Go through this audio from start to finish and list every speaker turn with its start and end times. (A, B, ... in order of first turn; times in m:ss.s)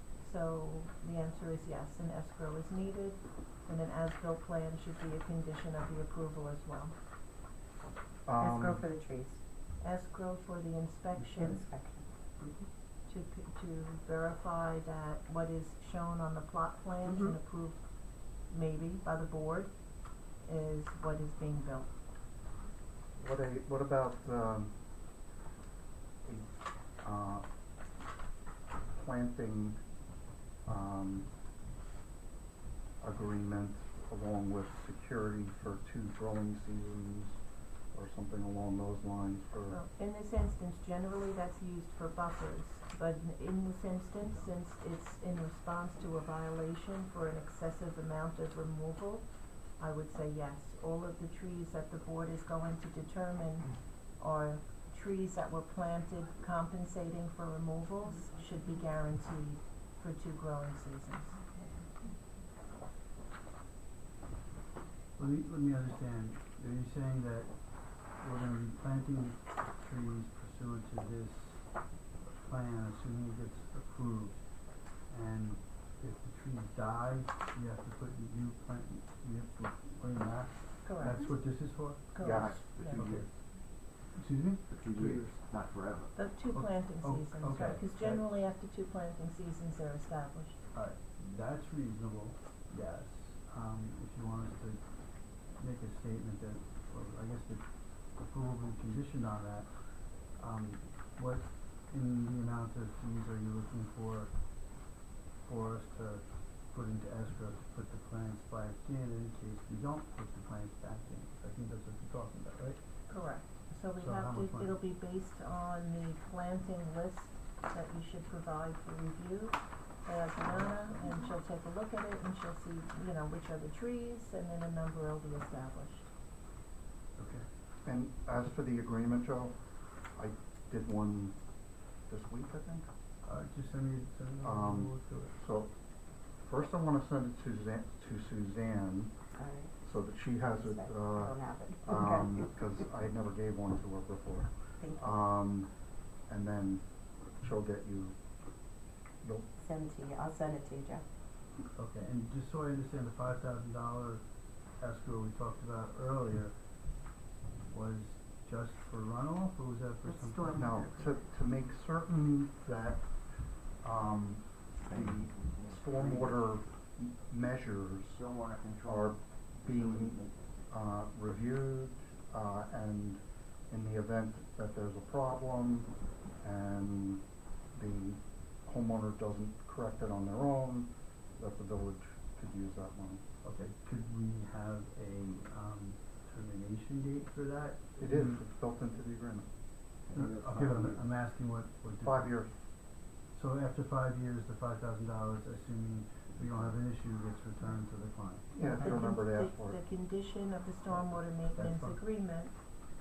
0:00.2-0:06.9 A
0:08.2-0:08.8 B
0:08.4-0:09.4 C
0:09.8-0:11.6 A
0:11.4-0:12.6 C
0:13.1-0:17.8 A
0:18.5-0:19.7 A
0:20.4-0:21.9 A
0:23.2-0:24.7 B
0:27.0-0:27.4 B
0:28.9-0:29.8 B
0:30.6-0:31.3 B
0:33.0-0:37.4 B
0:37.9-0:39.8 B
0:39.7-0:49.2 A
0:49.8-1:01.4 A
1:01.4-1:02.1 C
1:05.2-1:14.4 D
1:15.0-1:23.3 D
1:20.8-1:21.2 A
1:22.1-1:23.0 A
1:22.2-1:23.3 E
1:24.1-1:25.2 D
1:24.7-1:26.1 E
1:26.1-1:30.6 A
1:26.5-1:28.2 D
1:30.7-1:34.8 D
1:35.5-1:44.4 D
1:45.4-1:52.8 D
1:53.1-2:06.1 A
1:54.0-1:54.8 D
2:00.5-2:01.0 D
2:07.2-2:07.5 D
2:07.8-2:09.6 B
2:10.1-2:11.4 B
2:12.1-2:12.8 B
2:13.2-2:15.4 D
2:14.4-2:15.7 B
2:16.4-2:19.1 B
2:19.4-2:19.8 C
2:19.8-2:25.7 B
2:20.4-2:22.5 C
2:24.8-2:25.2 C
2:26.3-2:26.8 B
2:27.4-2:28.2 B
2:29.2-2:29.5 B
2:29.6-2:31.0 C
2:31.7-2:34.2 D
2:34.8-2:36.6 D
2:37.6-2:40.8 D
2:40.0-2:41.2 C
2:40.5-2:43.1 B
2:43.8-2:48.2 B
2:44.8-2:46.6 E
2:48.1-2:50.7 E
2:48.8-3:03.2 B
3:03.4-3:08.4 D
3:08.0-3:09.5 B
3:10.1-3:11.1 E
3:10.1-3:12.4 D
3:12.0-3:12.5 B
3:13.3-3:18.5 D
3:18.5-3:19.8 B
3:18.6-3:22.5 A
3:21.5-3:22.0 D